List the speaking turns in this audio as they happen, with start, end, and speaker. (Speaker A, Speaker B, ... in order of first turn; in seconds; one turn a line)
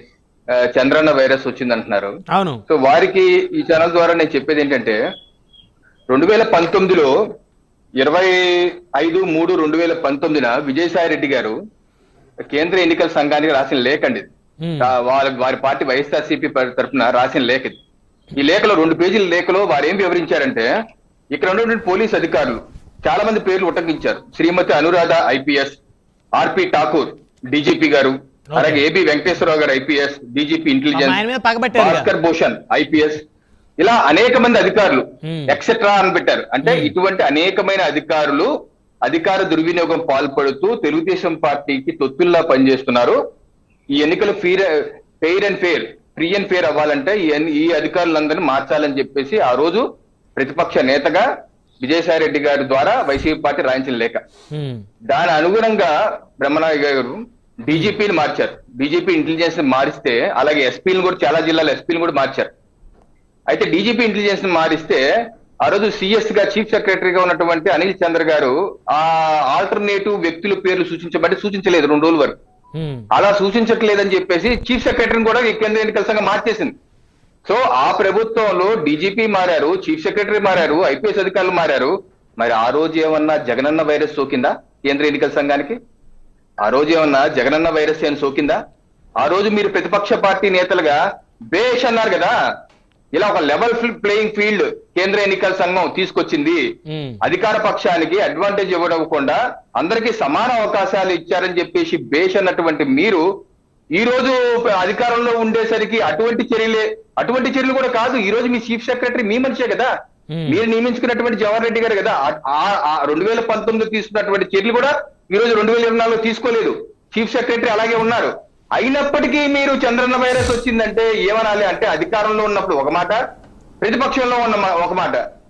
Speaker A: 0.6-2.1
Speaker B: 2.3-2.6
Speaker A: 2.7-5.0
Speaker A: 6.1-7.1
Speaker A: 8.0-11.6
Speaker A: 12.5-14.3
Speaker B: 14.6-14.9
Speaker A: 14.8-17.8
Speaker A: 18.4-20.7
Speaker A: 21.3-25.8
Speaker A: 26.4-31.2
Speaker B: 28.5-28.8
Speaker B: 30.9-32.1
Speaker A: 31.7-33.2
Speaker A: 33.8-38.5
Speaker B: 35.2-35.6
Speaker B: 36.6-37.0
Speaker A: 39.1-43.2
Speaker A: 44.0-44.7
Speaker A: 45.2-49.8
Speaker A: 50.4-51.2
Speaker A: 51.8-54.2
Speaker B: 54.5-54.8
Speaker A: 55.1-62.5
Speaker A: 63.5-65.0
Speaker A: 65.6-72.4
Speaker B: 72.8-73.1
Speaker A: 73.1-76.7
Speaker A: 77.5-85.8
Speaker A: 86.7-88.6
Speaker A: 89.2-91.0
Speaker A: 91.5-92.3
Speaker A: 93.2-96.6
Speaker B: 96.9-97.2
Speaker A: 97.2-103.2
Speaker A: 104.0-109.9
Speaker B: 110.3-110.6
Speaker A: 110.5-123.2
Speaker A: 123.8-125.2